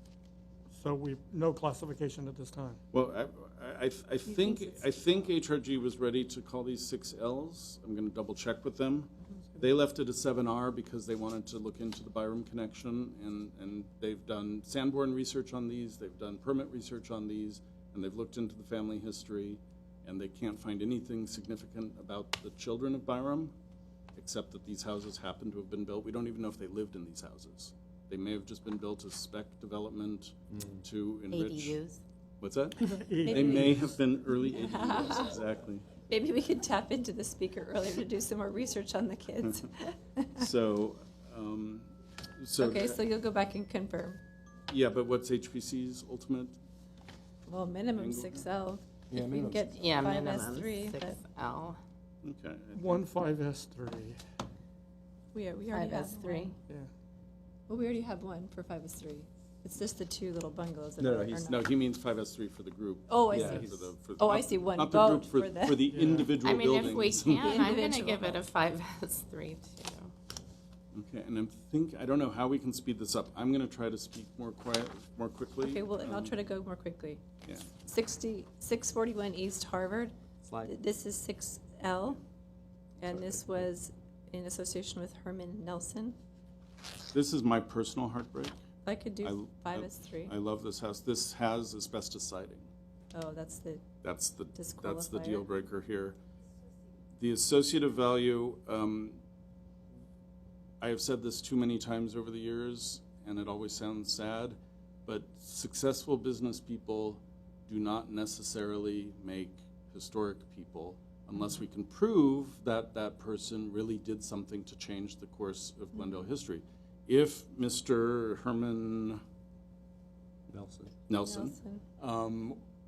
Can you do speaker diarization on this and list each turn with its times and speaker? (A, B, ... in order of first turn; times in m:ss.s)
0:00.7-0:02.8 A
0:02.9-0:23.6 B
0:04.3-0:05.1 C
0:24.2-0:31.8 B
0:30.5-0:30.8 D
0:31.3-0:32.0 E
0:32.4-0:35.9 B
0:32.9-0:33.9 A
0:33.2-0:35.3 C
0:36.1-0:40.5 C
0:40.4-0:43.0 B
0:42.6-0:44.2 C
0:44.7-0:46.6 B
0:47.5-0:51.2 C
0:48.0-0:48.5 B
0:49.1-0:49.8 D
0:49.8-0:51.8 E
0:52.2-0:53.1 B
0:52.8-0:54.2 A
0:55.3-0:56.6 C
0:55.7-0:56.6 E
0:57.7-1:01.7 C
1:01.0-1:01.5 D
1:01.5-1:07.7 B
1:03.1-1:05.9 C
1:03.3-1:03.9 D
1:05.9-1:06.3 A
1:06.4-1:10.1 E
1:07.3-1:08.4 C
1:10.9-1:16.4 B
1:15.6-1:17.2 C
1:17.8-1:22.2 C
1:20.4-1:20.7 D
1:23.0-1:26.2 C
1:27.1-1:28.6 B
1:28.8-1:30.4 C
1:29.2-1:32.7 B
1:33.1-1:33.8 C
1:34.0-1:36.2 B
1:34.5-1:35.5 C
1:37.2-1:39.2 B
1:40.8-1:59.2 B
2:00.5-2:00.9 D
2:01.1-2:02.6 B
2:01.2-2:01.8 C